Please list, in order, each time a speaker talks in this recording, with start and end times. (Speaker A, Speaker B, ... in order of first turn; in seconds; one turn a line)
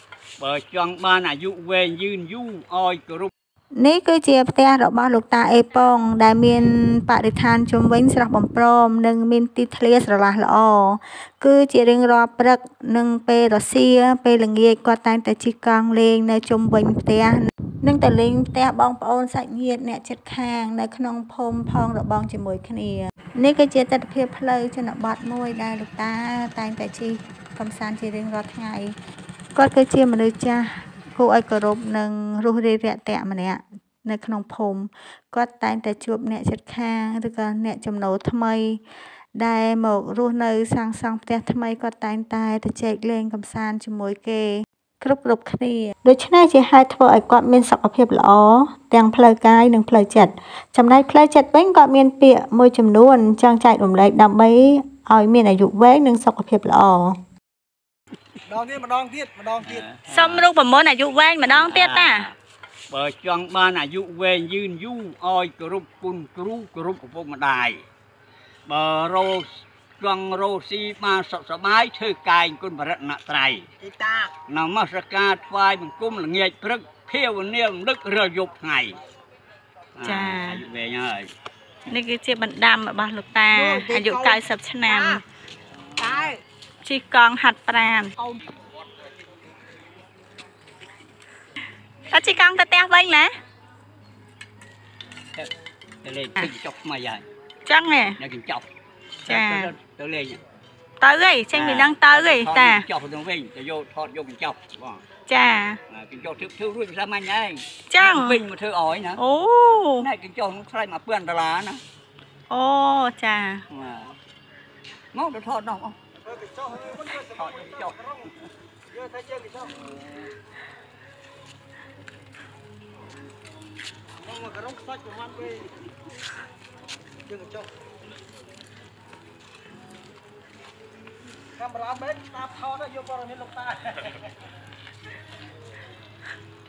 Speaker A: 0.4-3.3
Speaker B: 3.8-28.9
Speaker B: 29.5-38.8
Speaker B: 39.4-57.2
Speaker C: 58.5-59.8
Speaker A: 59.6-60.5
Speaker D: 60.1-62.3
Speaker A: 61.5-62.3
Speaker A: 62.9-67.8
Speaker A: 68.7-69.5
Speaker A: 70.0-73.6
Speaker C: 73.8-74.3
Speaker A: 74.5-79.0
Speaker A: 80.0-81.3
Speaker D: 80.0-80.6
Speaker D: 81.9-85.2
Speaker C: 83.5-85.2
Speaker C: 86.0-86.4
Speaker D: 86.8-88.1
Speaker D: 92.1-93.3
Speaker A: 96.0-97.2
Speaker D: 97.7-98.2
Speaker A: 98.2-98.6
Speaker A: 99.2-100.4
Speaker D: 99.3-99.7
Speaker D: 101.0-102.9
Speaker A: 101.5-105.0
Speaker D: 105.3-105.8
Speaker A: 105.9-109.2
Speaker D: 107.9-108.4
Speaker D: 109.2-110.1
Speaker A: 110.0-111.8
Speaker D: 112.5-113.6
Speaker A: 113.7-114.1
Speaker A: 115.1-116.0
Speaker C: 116.2-118.2
Speaker A: 117.1-118.0
Speaker C: 118.9-119.8
Speaker C: 124.2-125.7
Speaker C: 127.3-127.7
Speaker C: 131.6-133.9